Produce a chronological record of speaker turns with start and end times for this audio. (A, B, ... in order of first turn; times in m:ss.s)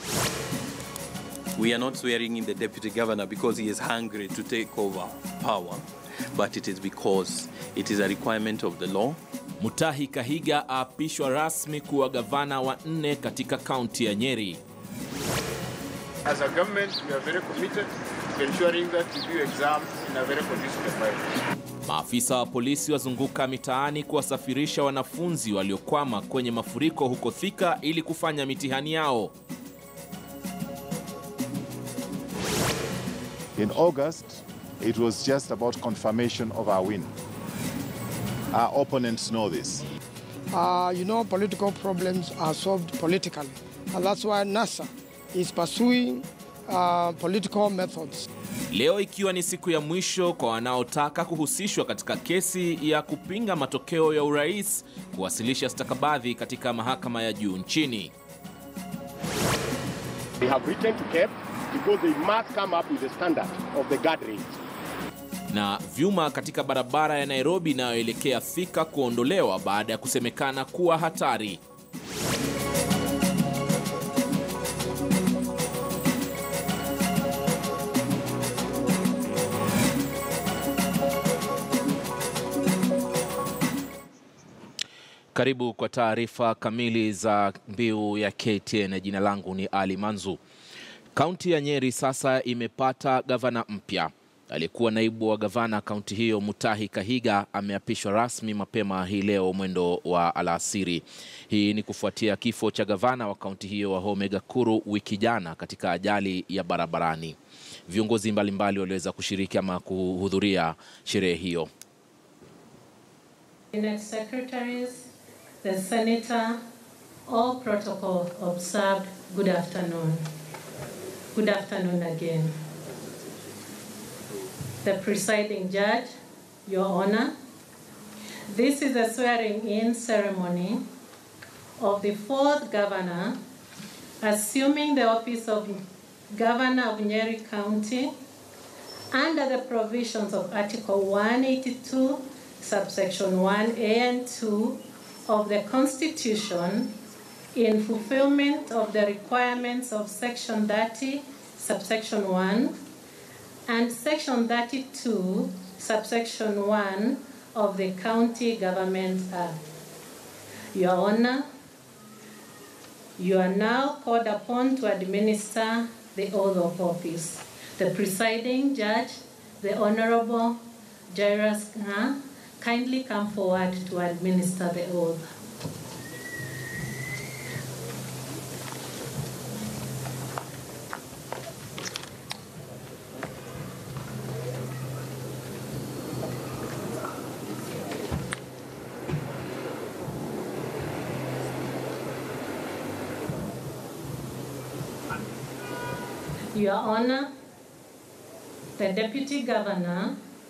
0:01.5-0:09.2 A
0:09.6-0:14.6 B
0:16.2-0:21.3 C
0:21.8-0:29.3 B
0:33.6-0:37.1 D
0:38.5-0:39.8 D
0:40.5-0:48.2 E
0:48.7-0:58.1 B
1:00.4-1:04.5 F
1:05.5-1:11.6 B
1:25.3-1:30.4 B
1:31.1-1:47.4 B
1:47.9-1:51.7 B
1:53.7-1:55.1 G
1:55.6-1:56.6 G
1:57.3-2:00.2 G
2:01.3-2:02.5 G
2:04.8-2:06.1 G
2:06.7-2:07.3 G
2:08.5-2:10.8 G
2:11.8-2:13.4 G
2:14.2-2:18.1 G
2:19.1-2:26.9 G
2:27.5-2:32.7 G
2:33.7-2:39.6 G
2:40.7-2:41.5 G
2:43.2-2:55.2 G
3:16.5-3:17.3 G
3:18.8-3:20.2 G